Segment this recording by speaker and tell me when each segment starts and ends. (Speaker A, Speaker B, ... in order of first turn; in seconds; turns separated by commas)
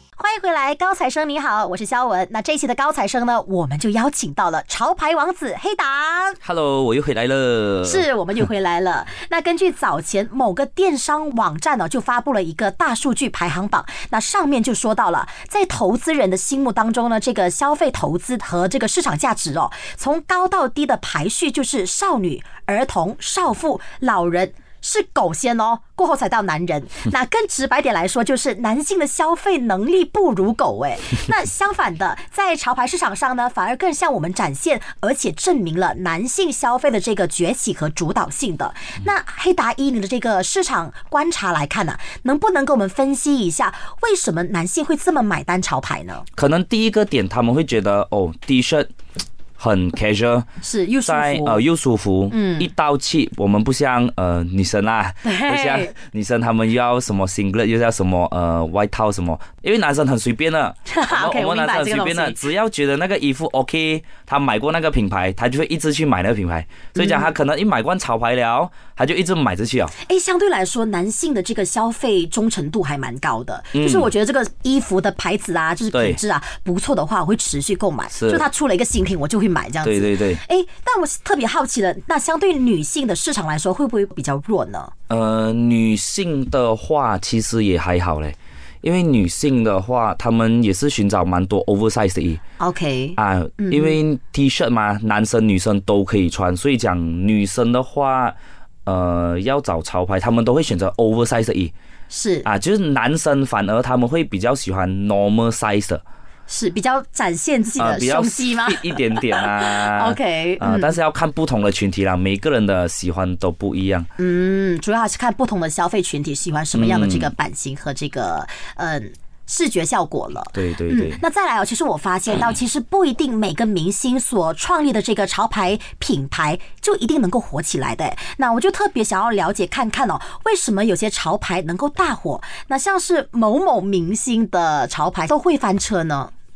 Speaker A: 0.2-6.4, Speaker B: 6.4-8.1, Speaker A: 7.8-46.3, Speaker B: 46.4-48.9, Speaker B: 49.6-50.5, Speaker A: 50.6-51.6, Speaker B: 51.0-69.9, Speaker A: 52.3-52.7, Speaker A: 55.2-55.9, Speaker A: 60.9-62.4, Speaker A: 67.0-67.3, Speaker A: 70.0-84.9, Speaker B: 73.7-74.1, Speaker B: 75.9-76.2, Speaker B: 78.1-78.5, Speaker B: 79.8-80.4, Speaker B: 85.1-92.4, Speaker A: 92.6-94.0, Speaker B: 93.2-101.7, Speaker A: 102.1-102.5, Speaker B: 102.5-106.0, Speaker A: 106.5-111.0, Speaker B: 107.8-114.1, Speaker A: 114.2-136.3, Speaker B: 116.7-117.3, Speaker B: 120.5-121.2